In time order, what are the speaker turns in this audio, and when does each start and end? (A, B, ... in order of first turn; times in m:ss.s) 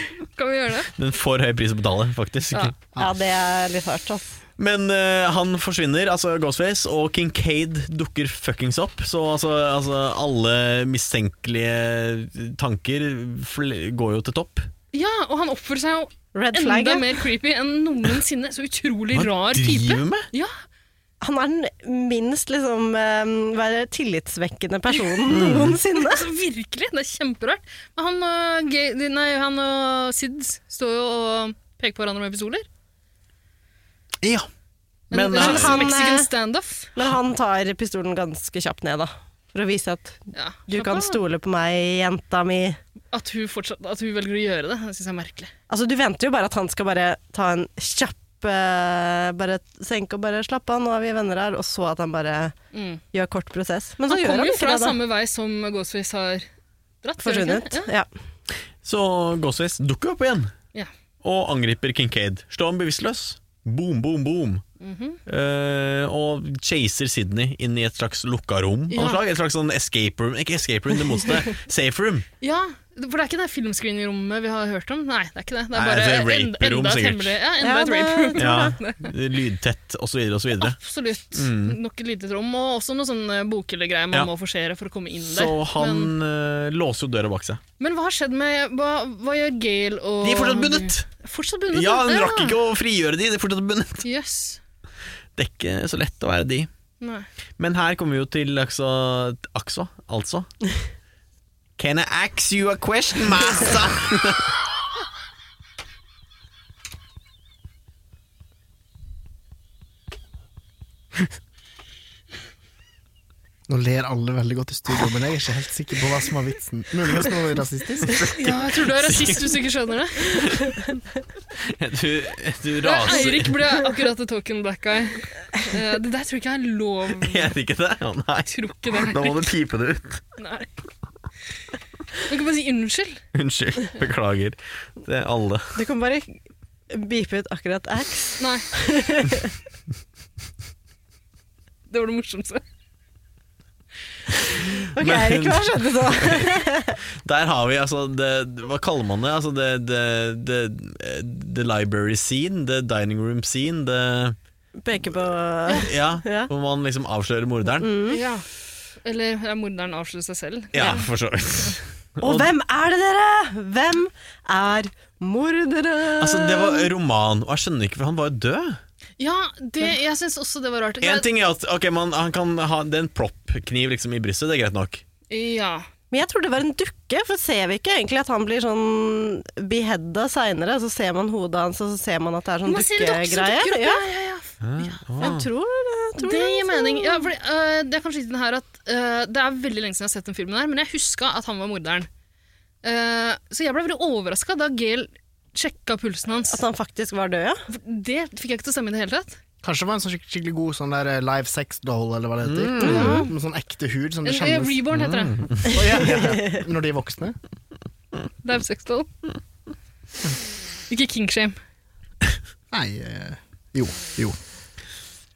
0:00.4-0:00.9 A
0:01.0-0:02.8 B
0:03.0-0:04.4 C
0:04.6-0:14.7 B
0:14.9-0:20.5 A
0:16.3-0:17.2 C
0:19.1-0:20.3 B
0:21.2-0:26.3 C
0:25.3-0:25.8 B
0:26.0-0:32.7 A
0:34.2-0:34.5 B
0:35.1-0:36.0 B
0:35.1-0:36.9 A
0:35.3-0:36.3 C
0:37.0-0:42.8 C
0:40.3-0:41.2 A
0:43.1-0:45.5 A
0:45.7-0:52.6 C
0:52.7-0:53.0 A
0:53.1-0:55.0 C
0:54.1-0:56.5 A
0:57.0-0:57.9 A
0:57.2-0:58.1 C
0:58.8-1:00.5 B
1:01.2-1:04.6 B
1:04.8-1:05.2 A
1:05.3-1:12.3 B
1:08.9-1:09.2 A
1:12.4-1:19.1 A
1:15.7-1:17.4 B
1:17.6-1:18.8 C
1:18.4-1:20.8 B
1:20.6-1:26.1 A
1:21.3-1:21.8 B
1:25.2-1:27.6 B
1:27.8-1:32.5 A
1:30.2-1:31.1 B
1:31.7-1:34.0 B
1:34.0-1:34.6 A
1:35.4-1:36.7 B
1:37.0-1:37.3 A
1:37.6-1:40.5 B
1:41.8-1:44.5 B
1:53.7-1:58.4 D
1:58.0-1:59.6 B
1:58.4-2:00.8 A
2:00.2-2:00.8 B
2:01.6-2:03.6 B
2:02.8-2:07.5 A
2:07.2-2:10.2 B
2:08.5-2:09.5 A
2:10.4-2:10.7 A
2:12.2-2:13.2 A
2:13.3-2:15.8 B
2:15.8-2:16.4 C
2:16.9-2:19.5 C
2:18.4-2:18.7 A
2:21.9-2:22.6 A
2:24.3-2:26.6 B
2:25.0-2:27.0 C
2:27.2-2:34.4 B
2:34.8-2:36.5 C
2:35.8-2:37.9 B
2:37.8-2:38.2 C
2:38.1-2:38.5 A
2:39.0-2:41.1 A
2:40.7-2:42.5 B
2:42.2-2:46.9 C
2:46.2-2:48.8 B
2:49.2-2:51.3 A
2:51.0-2:55.0 B
2:55.3-2:55.9 A
2:56.1-3:04.0 C
3:02.7-3:05.3 A
3:04.6-3:05.5 B
3:05.2-3:07.3 C
3:06.2-3:12.1 A
3:12.8-3:16.6 A
3:16.5-3:17.6 C
3:17.7-3:19.4 A
3:19.6-3:24.8 D
3:22.4-3:23.2 B
3:22.8-3:23.3 C
3:22.8-3:23.3 A
3:24.2-3:25.5 A
3:24.9-3:25.8 B
3:25.6-3:27.4 D
3:28.4-3:29.1 A
3:30.9-3:31.6 A
3:32.7-3:34.4 D